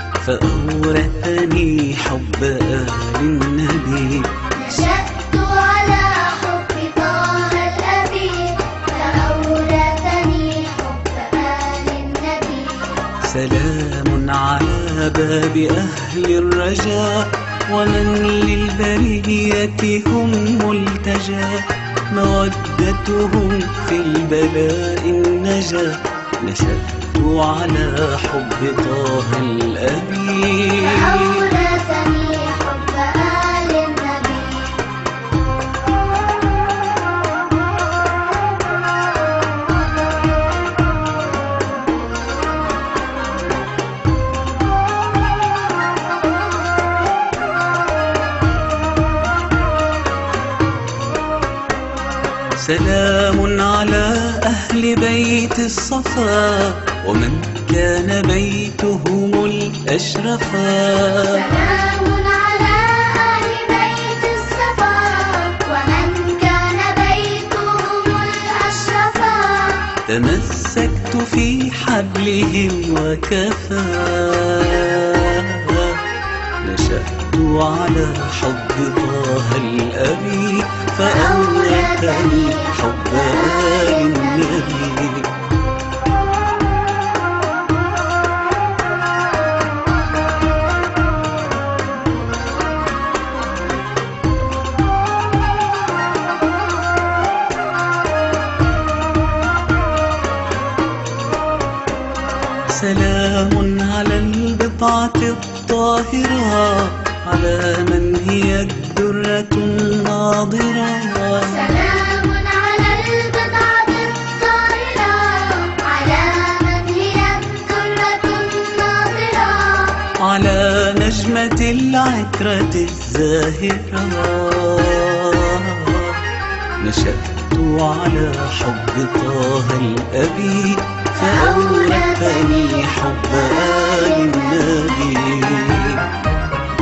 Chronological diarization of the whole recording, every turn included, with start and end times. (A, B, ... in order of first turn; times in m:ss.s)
0:00.2-0:04.3 A
0:04.5-0:13.0 B
0:13.2-0:31.4 A
0:30.8-0:34.8 B
0:52.6-1:01.6 A
1:01.3-1:09.9 B
1:10.1-1:16.0 A
1:16.6-1:25.3 A
1:21.0-1:24.7 B
1:42.7-1:51.6 A
1:51.4-2:00.0 B
2:00.2-2:06.2 A
2:06.8-2:16.0 A
2:11.2-2:14.6 B